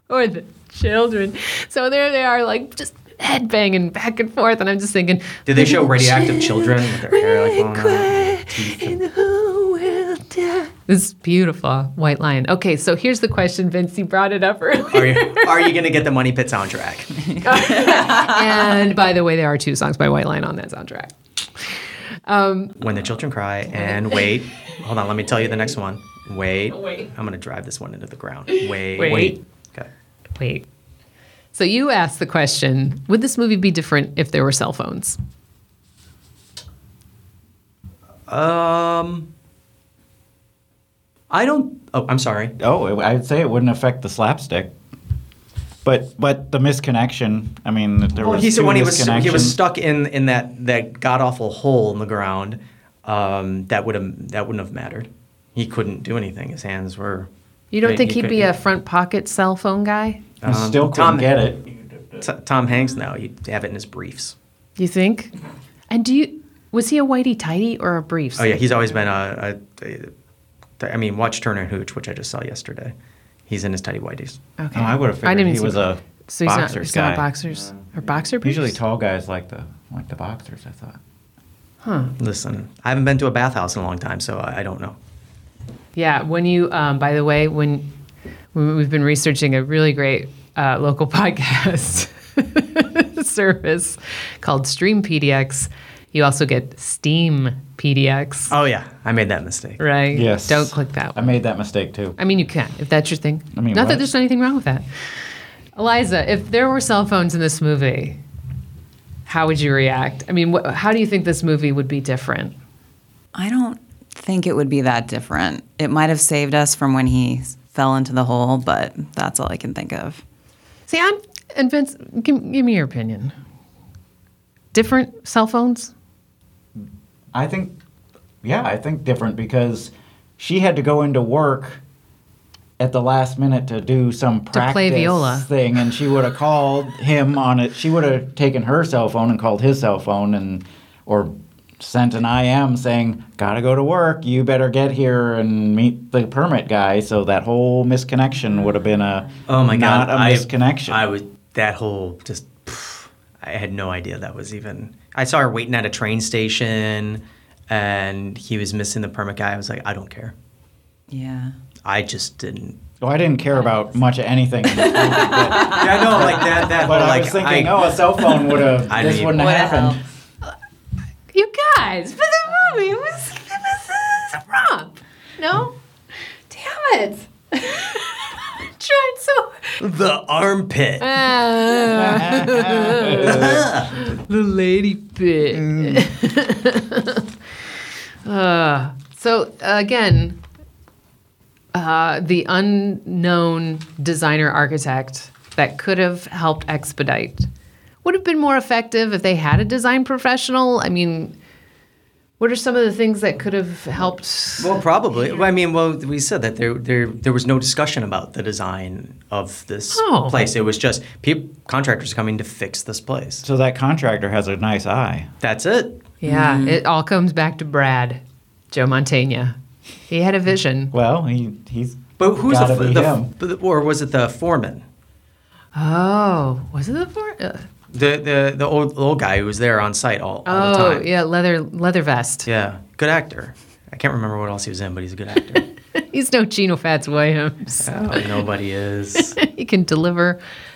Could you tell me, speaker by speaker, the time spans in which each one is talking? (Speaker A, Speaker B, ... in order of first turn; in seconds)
Speaker A: 0.1-15.7, 17.4-21.1, 22.3-22.8, 23.9-24.2, 28.5-29.4, 30.4-30.6, 31.5-35.2, 57.7-60.2, 64.8-65.3, 65.9-68.8, 74.6-78.8, 81.8-82.1, 86.0-87.9, 88.5-98.5, 99.8-101.2, 102.2-104.8, 105.8-108.2, 109.3-112.5, 120.9-123.3, 124.7-125.9, 134.5-135.5, 171.3-175.7, 176.5-179.8, 181.0-187.2, 188.2-190.4, 191.7-197.5, 198.0-201.3, 202.4-204.8, 209.9-210.4, 216.2-219.6, 220.1-220.9, 225.7-227.7, 230.4-232.5, 235.5-238.3, 239.2-240.4
Speaker B: 5.5-9.0, 14.9-17.4, 22.8-29.9, 38.3-39.3, 41.3-42.5, 48.2-57.3, 57.8-58.5, 60.4-61.5, 62.2-64.3, 68.4-70.1, 70.8-72.9, 73.5-74.4, 82.2-85.0, 98.5-99.8, 149.5-160.3, 161.8-162.8, 165.5-167.9, 168.9-169.4, 179.8-181.1, 183.1-183.9, 204.6-213.4, 215.4-216.0, 222.2-224.8, 227.9-231.1, 232.4-235.7, 237.8-239.4
Speaker C: 42.6-44.7, 45.8-49.6, 60.5-61.6, 74.7-77.3, 78.4-81.0, 100.1-102.2, 103.5-104.1, 127.3-127.7, 128.4-131.8, 132.8-151.1, 163.0-170.0, 181.9-183.7, 185.6-186.1, 213.4-215.3, 220.9-223.3
Speaker D: 113.3-120.2, 148.6-149.0, 161.1-161.6, 164.7-166.7, 169.3-170.0, 216.2-216.8